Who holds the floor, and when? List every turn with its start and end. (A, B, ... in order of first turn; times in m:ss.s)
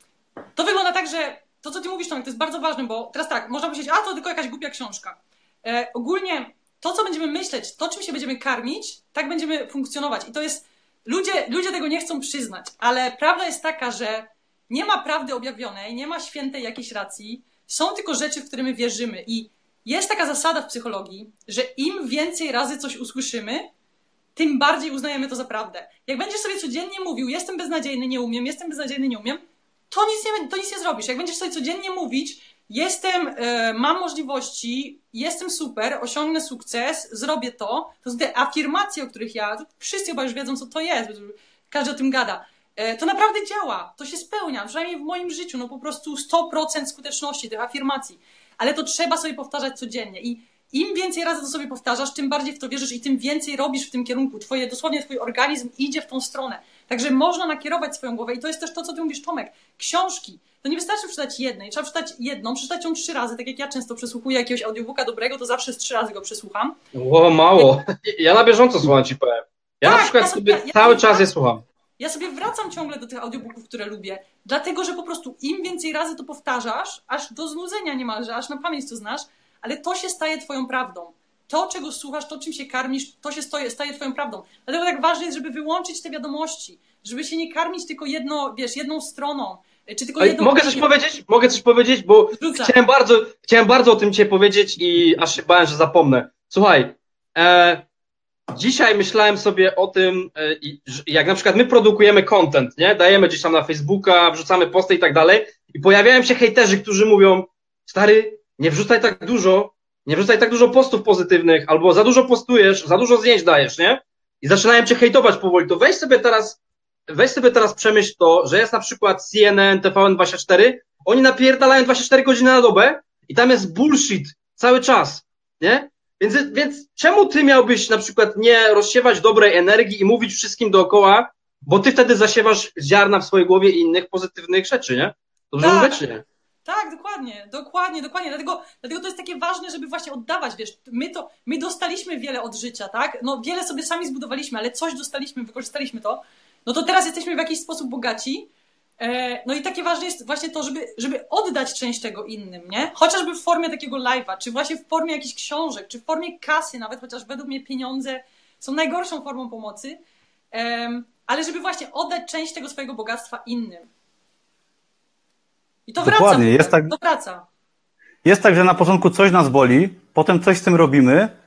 0:00.5-0:23.7 A
0:24.4-1:06.8 A
1:06.9-1:11.6 B
1:09.8-1:11.3 A
1:12.0-1:30.9 A
1:30.2-1:37.8 B
1:32.3-1:32.7 A
1:38.5-2:16.2 B
2:15.6-2:16.0 A
2:16.6-2:40.0 A
2:40.5-2:43.9 A
2:45.9-2:47.4 A
2:46.0-2:46.9 C
2:48.2-2:51.3 C